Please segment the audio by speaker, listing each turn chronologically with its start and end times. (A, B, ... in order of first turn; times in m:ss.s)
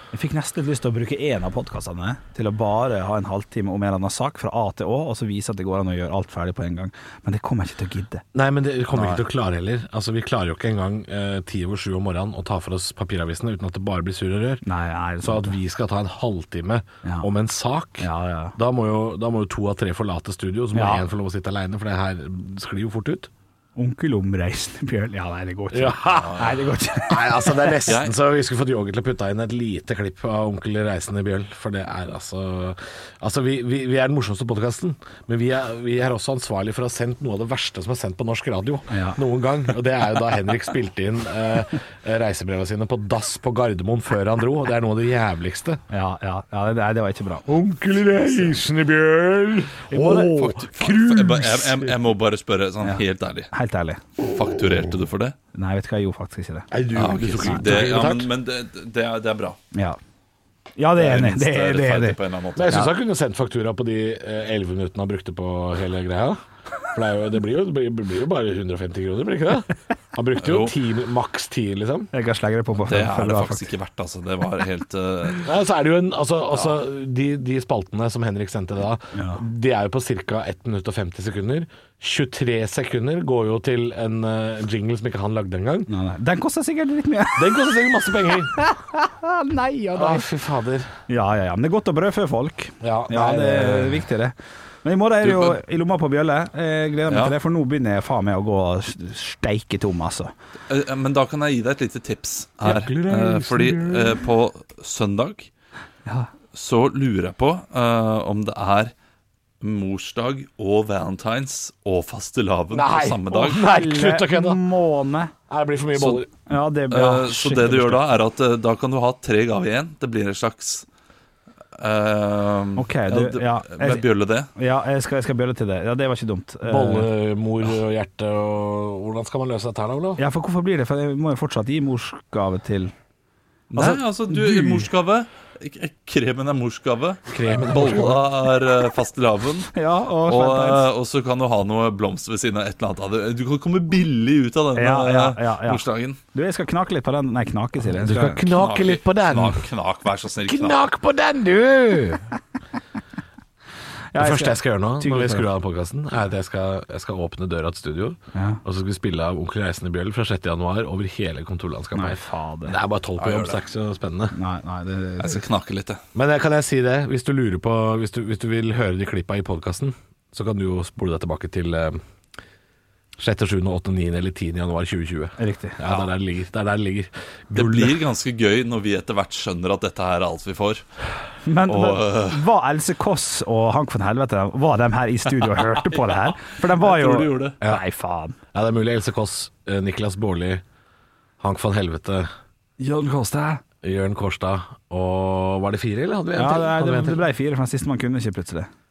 0:00.1-0:08.2 A
0:08.3-0:14.6 B
0:08.9-0:09.2 A
0:14.6-0:15.6 A
0:15.2-0:23.3 B
0:17.0-0:17.3 A
0:18.0-0:18.5 A
0:20.7-0:21.0 A
0:23.8-0:27.8 A
0:25.7-0:26.5 B
0:26.1-0:26.6 C
0:27.1-0:45.8 B
0:27.8-0:28.2 C
0:38.9-0:39.2 A
0:45.9-0:47.5 A
0:47.4-0:51.9 B
0:48.2-0:48.5 A
0:49.9-0:50.3 A
0:50.0-0:53.5 C
0:52.8-0:54.0 A
0:54.3-0:55.3 C
0:55.5-0:56.7 A
0:56.7-0:58.3 B
0:56.9-0:59.6 C
0:57.4-0:57.8 A
0:59.7-1:00.0 A
1:00.8-1:02.2 A
1:01.0-1:02.9 C
1:02.6-1:06.4 B
1:06.9-1:12.1 B
1:10.4-1:10.7 C
1:12.1-1:13.7 A
1:12.8-1:15.5 C
1:15.4-1:25.9 B
1:16.5-1:16.8 C
1:19.1-1:19.4 A
1:25.9-1:27.7 A
1:27.4-1:28.5 B
1:28.4-1:30.2 A
1:29.9-1:30.9 B
1:31.1-1:40.3 A
1:32.8-1:34.0 B
1:35.2-1:35.6 C
1:37.1-1:37.3 C
1:40.7-1:45.5 C
1:42.6-1:44.2 B
1:46.5-1:48.9 C
1:49.6-1:53.6 C
1:52.7-1:54.6 B
1:53.3-1:55.3 A
1:55.5-1:56.3 B
1:56.5-1:58.0 A
1:56.9-2:00.8 C
2:01.8-2:04.5 C
2:02.8-2:07.1 A
2:06.6-2:10.2 B
2:10.2-2:12.9 A
2:13.7-2:19.7 C
2:13.7-2:14.9 A
2:17.3-2:18.2 B
2:19.7-2:20.9 A
2:20.2-2:26.2 C
2:24.7-2:28.5 A
2:28.0-2:29.6 B
2:28.5-2:30.8 C
2:30.5-2:32.2 B
2:34.1-2:35.4 A
2:34.2-2:44.3 B
2:38.3-2:38.6 A
2:41.9-2:42.8 A
2:43.2-2:43.6 C
2:44.3-2:45.4 A
2:45.2-2:46.0 C
2:46.1-2:52.0 B
2:53.2-2:58.0 B
2:55.4-2:55.8 A
2:57.5-3:00.8 C
3:01.4-3:08.4 A
3:01.6-3:02.5 C
3:05.5-3:07.6 C
3:08.5-3:10.6 B
3:11.4-3:12.3 B
3:12.8-3:13.6 A
3:13.8-3:17.2 B
3:16.3-3:18.7 A